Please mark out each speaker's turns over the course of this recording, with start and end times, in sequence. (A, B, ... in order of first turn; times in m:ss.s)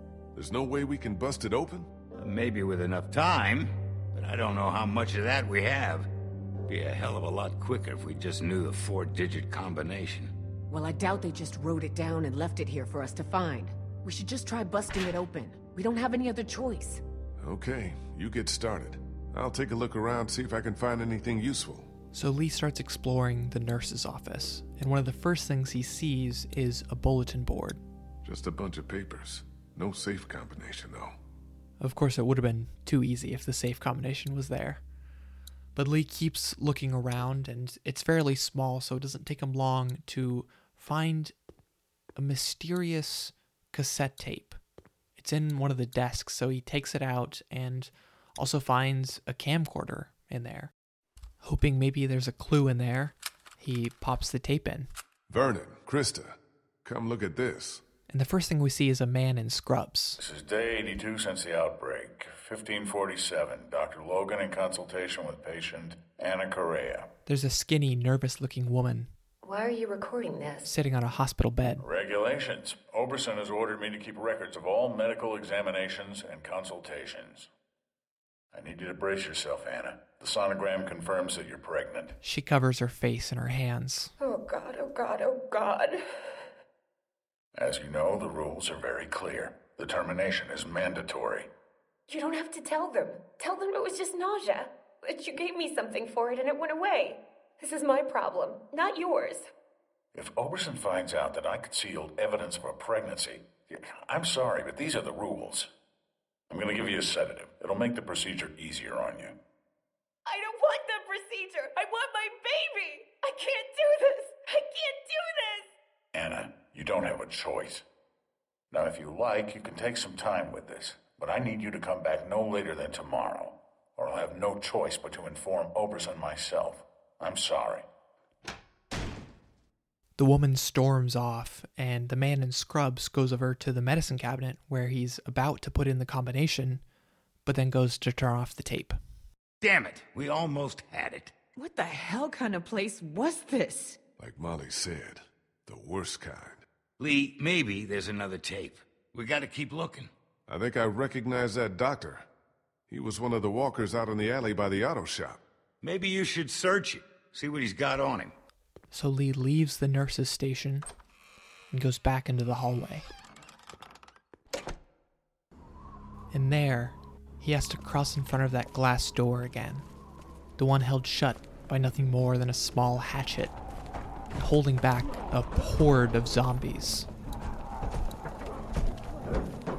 0:00.4-0:01.9 A
0:02.2-0:06.1 B
0:06.7-0:10.3 B
0:10.7-0:17.0 C
0:17.4-0:21.9 A
0:22.1-0:27.8 D
0:28.2-0:31.2 A
0:31.8-0:34.8 D
0:35.8-0:41.3 D
0:42.2-0:44.6 D
0:45.2-0:50.7 D
0:51.4-0:54.9 D
0:55.3-0:57.8 A
0:58.1-1:00.2 D
1:00.2-1:07.1 E
1:07.3-1:09.1 D
1:09.4-1:10.7 F
1:10.6-1:11.8 D
1:11.8-1:17.5 E
1:18.5-1:22.2 E
1:22.2-1:24.1 D
1:24.2-1:26.4 F
1:27.6-1:31.5 E
1:32.1-1:39.5 F
1:40.1-1:45.7 E
1:46.5-1:49.4 E
1:50.3-1:55.7 F
1:56.1-1:57.8 E
1:58.7-2:07.9 E
2:10.2-2:16.8 D
2:17.4-2:19.0 D
2:19.6-2:21.3 B
2:21.6-2:24.0 C
2:24.2-2:26.7 A
2:27.0-2:30.1 B
2:30.5-2:32.3 A
2:32.9-2:35.4 A
2:35.8-2:38.4 B
2:38.9-2:40.9 D
2:41.7-2:43.1 D
2:46.3-2:49.9 D
2:50.6-2:53.6 D
2:54.4-2:57.1 D